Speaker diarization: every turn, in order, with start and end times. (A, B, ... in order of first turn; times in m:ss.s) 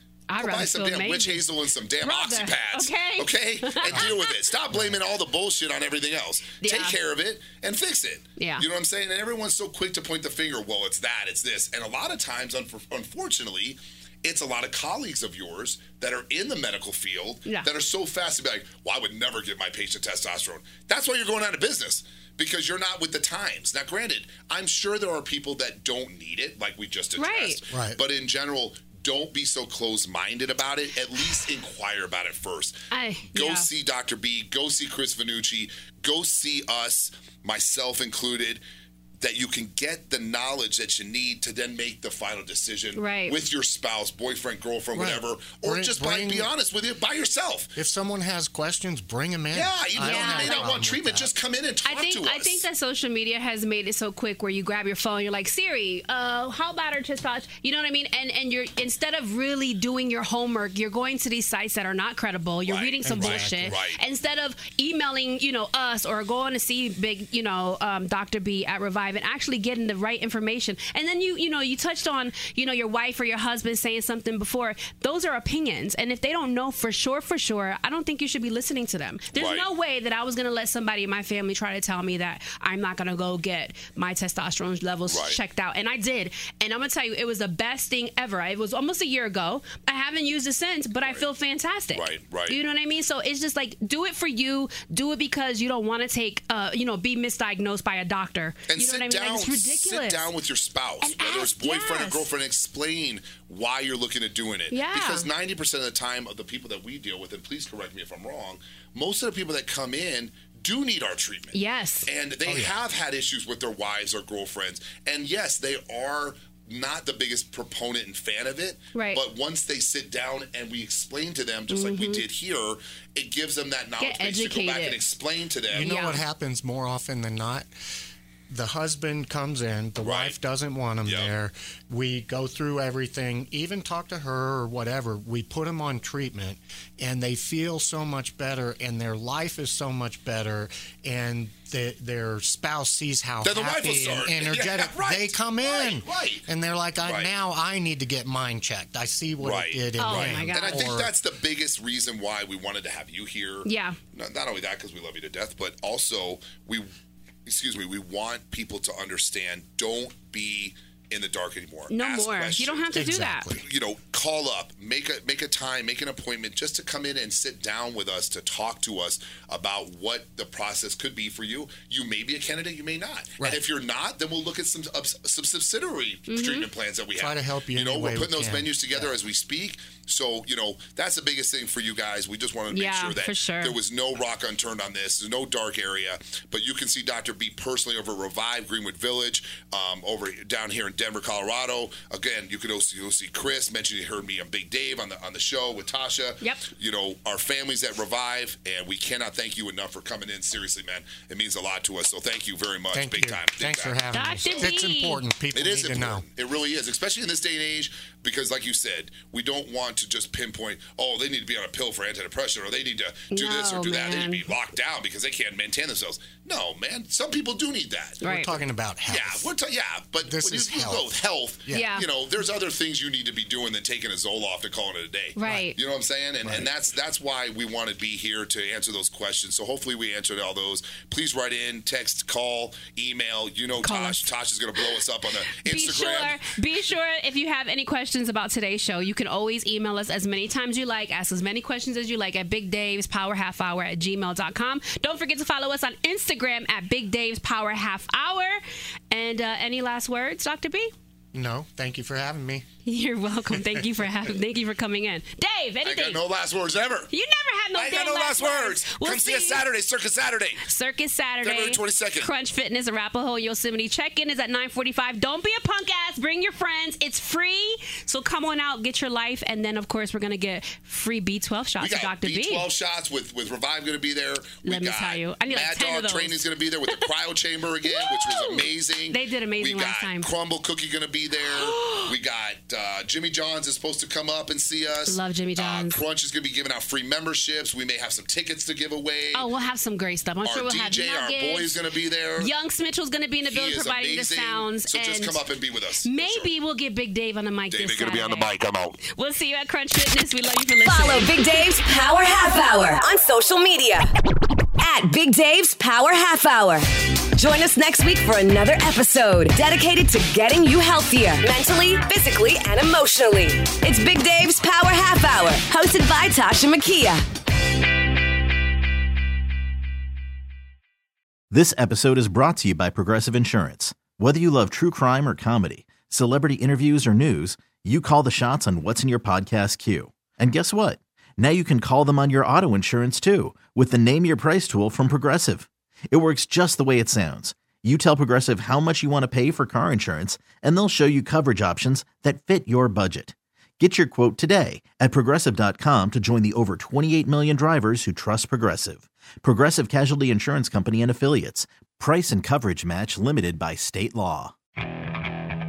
0:00.3-0:01.4 A
0:00.4-0:32.8 B
0:02.0-0:04.3 A
0:04.7-0:05.0 C
0:06.6-0:07.0 A
0:08.4-0:08.6 A
0:27.2-0:27.6 A
0:27.7-0:28.0 C
0:32.9-0:33.7 A
0:33.3-0:38.6 B
0:39.2-0:47.7 B
0:43.0-0:43.4 A
0:44.9-0:46.5 C
0:47.8-0:51.3 C
0:49.5-0:52.7 B
0:50.0-0:50.7 A
0:51.8-1:40.3 A
1:02.6-1:04.0 B
1:03.0-1:03.8 C
1:19.3-1:19.7 B
1:25.1-1:25.4 B
1:31.9-1:32.6 B
1:38.7-2:05.9 B
1:41.0-1:42.3 A
1:44.7-1:45.2 A
1:51.5-1:52.1 A
1:52.4-1:52.8 C
1:58.9-1:59.2 A
2:01.7-2:02.2 A
2:04.0-2:05.0 A
2:05.7-2:07.7 C
2:05.8-2:06.2 A
2:08.5-2:31.1 C
2:10.0-2:10.4 B
2:11.0-2:11.3 B
2:23.4-2:26.5 B
2:27.0-2:27.3 B
2:29.4-2:36.9 B
2:30.0-2:30.9 A
2:33.6-2:34.0 A
2:37.4-3:24.7 B
2:41.9-2:43.5 A
2:42.9-2:43.6 C
2:56.3-2:56.7 A
2:57.2-2:59.1 C
3:02.7-3:03.8 A
3:22.9-3:26.2 C
3:24.1-3:25.2 A
3:25.5-3:38.2 B
3:33.3-3:34.5 A
3:38.2-3:38.5 A
3:38.2-3:39.5 C
3:39.1-3:56.5 B
3:40.2-3:41.1 C
3:41.7-3:42.0 C
3:41.7-3:42.0 A
3:45.4-3:45.8 A
3:53.8-3:54.9 A
3:55.5-4:08.6 A
4:09.1-4:10.9 A
4:11.3-4:12.6 C
4:12.8-4:16.2 A
4:15.8-4:17.1 B
4:17.1-4:19.6 A
4:17.7-4:20.6 B
4:20.6-4:32.6 A
4:21.4-4:22.3 B
4:31.8-4:49.5 B
4:34.6-4:37.1 A
4:37.8-4:40.3 A
4:41.4-4:42.1 A
4:45.1-4:46.0 A
4:49.3-4:51.8 A
4:50.4-4:52.5 B
4:52.4-4:55.4 A
4:53.4-4:56.5 B
4:56.0-4:58.5 A
4:57.7-4:59.0 B
4:59.0-5:01.4 A
5:00.8-5:04.1 D
5:04.8-5:17.2 D
5:21.5-5:54.5 E